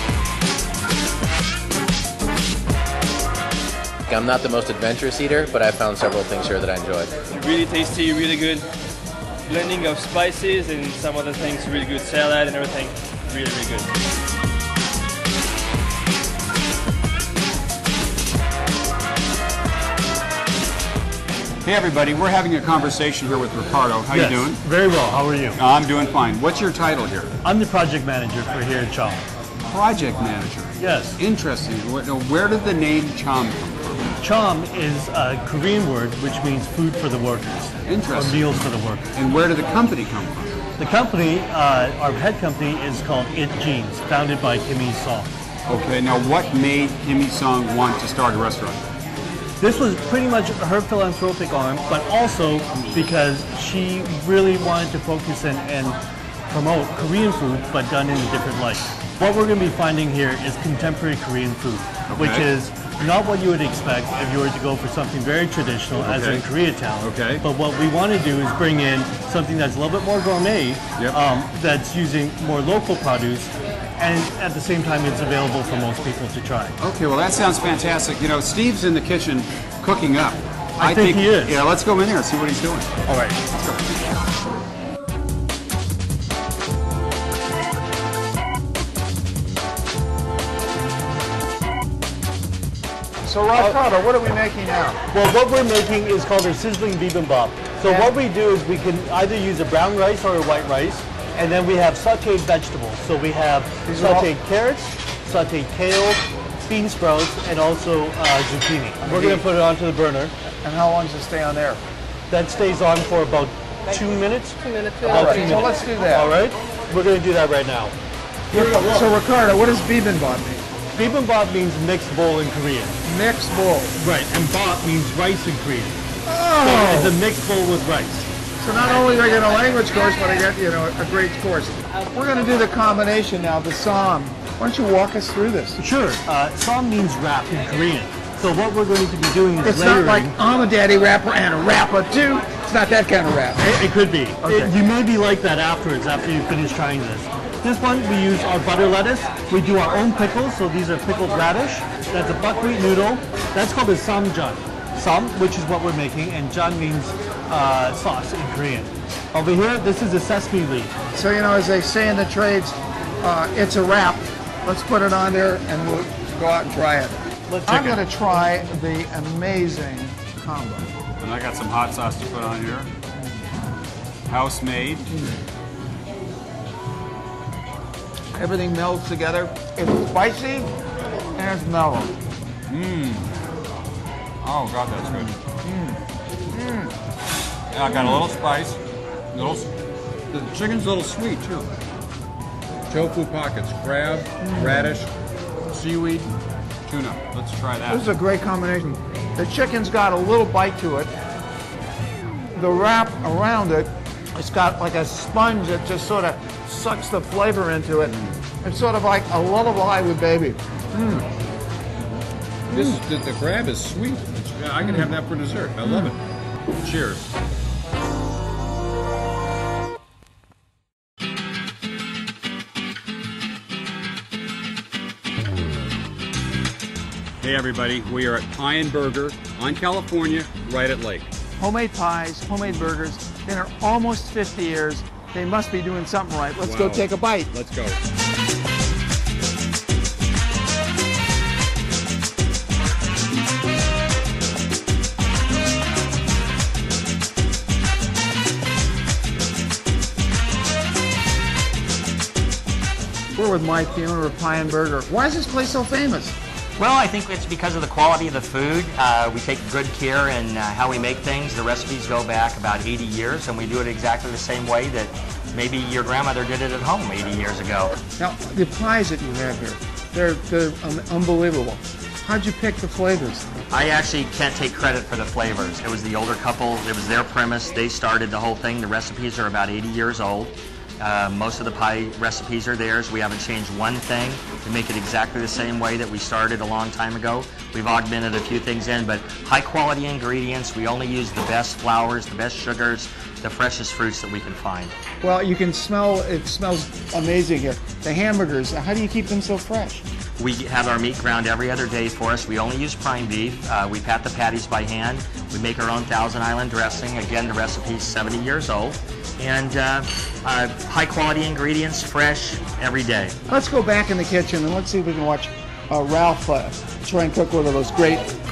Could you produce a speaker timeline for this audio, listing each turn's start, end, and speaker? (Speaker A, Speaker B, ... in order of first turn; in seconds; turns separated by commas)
Speaker A: 4.1-7.2, Speaker B: 7.3-8.7, Speaker B: 9.5-13.9, Speaker C: 21.6-24.6, Speaker D: 24.1-25.6, Speaker C: 25.6-27.3, Speaker D: 27.4-29.2, Speaker C: 29.7-34.0, Speaker D: 30.8-31.2, Speaker D: 34.2-39.1, Speaker C: 37.9-38.5, Speaker C: 39.1-40.5, Speaker D: 40.8-45.3, Speaker C: 45.7-48.8, Speaker D: 49.6-56.0, Speaker D: 56.5-76.7, Speaker C: 62.1-62.5, Speaker C: 66.0-66.4, Speaker C: 67.0-67.4, Speaker C: 76.8-83.8, Speaker D: 80.8-81.6, Speaker E: 93.2-95.0, Speaker D: 95.1-110.3, Speaker E: 97.8-98.1, Speaker E: 103.8-104.3, Speaker E: 109.0-109.5, Speaker E: 110.6-111.8, Speaker D: 112.3-117.9, Speaker E: 115.0-116.3, Speaker D: 118.5-119.1, Speaker E: 118.5-120.7, Speaker D: 120.9-123.0, Speaker E: 123.0-124.0, Speaker D: 124.0-126.0, Speaker E: 126.2-127.2, Speaker D: 126.6-128.3, Speaker E: 128.6-135.8, Speaker D: 135.8-140.3, Speaker E: 139.6-143.7, Speaker D: 143.6-160.9, Speaker E: 144.4-144.7, Speaker E: 161.1-170.9, Speaker D: 167.5-168.0, Speaker C: 171.2-172.9, Speaker C: 174.3-175.1, Speaker E: 178.3-180.7, Speaker E: 181.3-182.1, Speaker C: 182.7-183.3, Speaker C: 184.4-185.3, Speaker E: 185.0-186.9, Speaker C: 187.7-188.8, Speaker C: 189.3-189.7, Speaker C: 190.3-191.7, Speaker C: 192.9-195.1, Speaker E: 194.4-195.0, Speaker C: 195.7-196.3, Speaker C: 196.9-198.0, Speaker E: 197.9-201.1, Speaker E: 202.5-211.2, Speaker C: 212.7-216.2, Speaker C: 216.8-217.3, Speaker C: 227.4-231.3, Speaker E: 231.6-237.5, Speaker C: 236.6-238.0, Speaker E: 253.3-256.3, Speaker F: 256.8-268.0, Speaker E: 268.2-273.5, Speaker F: 273.7-294.9, Speaker E: 295.2-300.0, Speaker F: 300.4-313.4, Speaker E: 313.5-318.3